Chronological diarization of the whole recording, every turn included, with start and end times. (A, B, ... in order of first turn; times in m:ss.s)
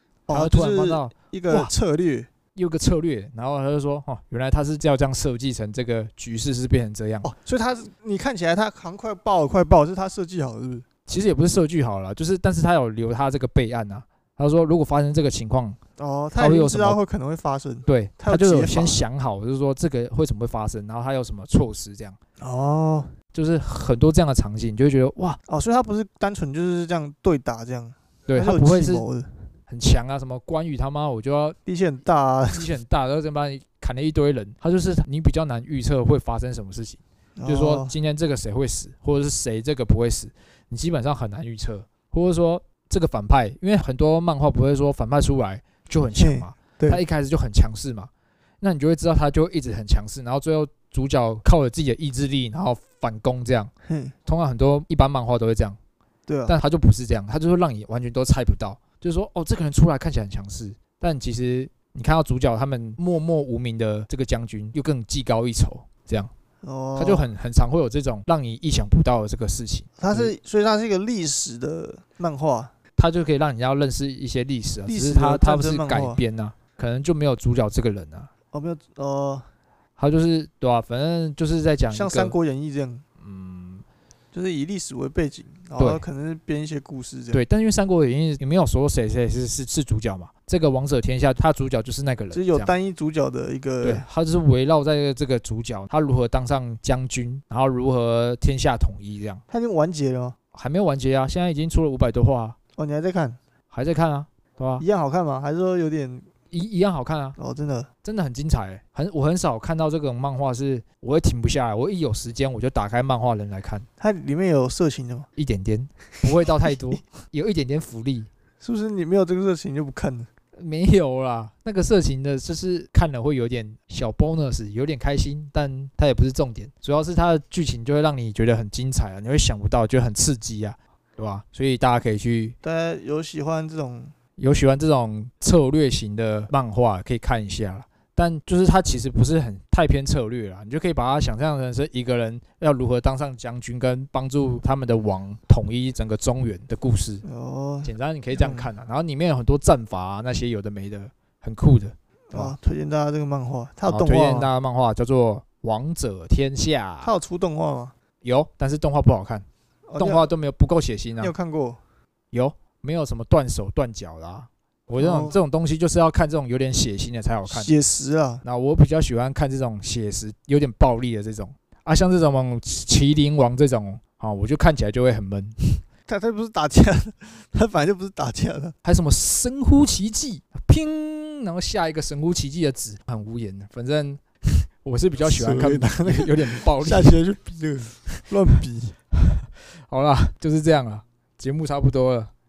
0:00.3-0:02.3 A
0:00.3-0:01.7 B
0:02.6-0:07.3 B
0:07.2-0:10.9 A
0:11.1-0:15.8 B
0:16.0-0:19.0 A
0:16.4-0:17.0 B
0:17.9-0:22.2 B
0:22.4-0:23.1 A
0:23.3-0:25.4 B
0:25.5-0:29.5 A
0:28.3-0:29.0 B
0:29.7-0:31.6 B
0:31.7-0:32.7 A
0:32.5-0:48.1 B
0:37.4-0:37.9 A
0:46.2-0:47.0 A
0:48.6-0:53.7 B
0:53.9-0:54.1 A
0:54.3-0:55.8 B
0:56.3-0:56.6 A
0:56.5-1:06.3 B
1:06.6-1:07.3 A
1:07.0-1:10.3 B
1:10.0-1:12.7 A
1:13.0-1:18.3 B
1:14.9-1:16.2 A
1:18.5-1:19.5 A
1:20.0-1:22.4 B
1:21.9-1:23.0 A
1:23.2-1:23.8 B
1:24.3-1:27.4 A
1:25.8-1:26.0 B
1:27.3-1:32.7 B
1:32.3-1:34.1 A
1:33.8-1:39.4 B
1:39.5-1:40.4 A
1:40.5-1:42.6 B
1:42.8-1:43.4 A
1:43.7-1:44.8 B
1:44.8-1:46.3 A
1:46.5-1:47.4 B
1:47.4-1:47.9 A
1:48.0-1:53.9 B
1:54.0-1:55.3 A
1:55.4-1:58.3 B
1:56.7-1:57.0 A
1:58.6-2:00.3 A
2:00.6-2:12.6 B
2:12.6-2:14.1 A
2:14.4-2:27.2 B
2:27.2-2:28.7 A
2:27.8-2:32.6 B
2:32.3-2:34.5 A
2:33.9-2:37.1 B
2:37.0-2:37.9 A
2:38.2-2:39.5 B
2:39.9-2:40.3 A
2:40.0-2:41.3 B
2:41.2-2:41.8 A
2:42.3-2:47.7 B
2:45.0-2:45.4 A
2:47.5-2:48.4 A
2:48.4-2:55.8 B
2:56.1-2:58.8 A
2:58.8-3:04.2 B
3:04.8-3:07.2 B
3:05.2-3:09.0 A
3:09.1-3:12.3 B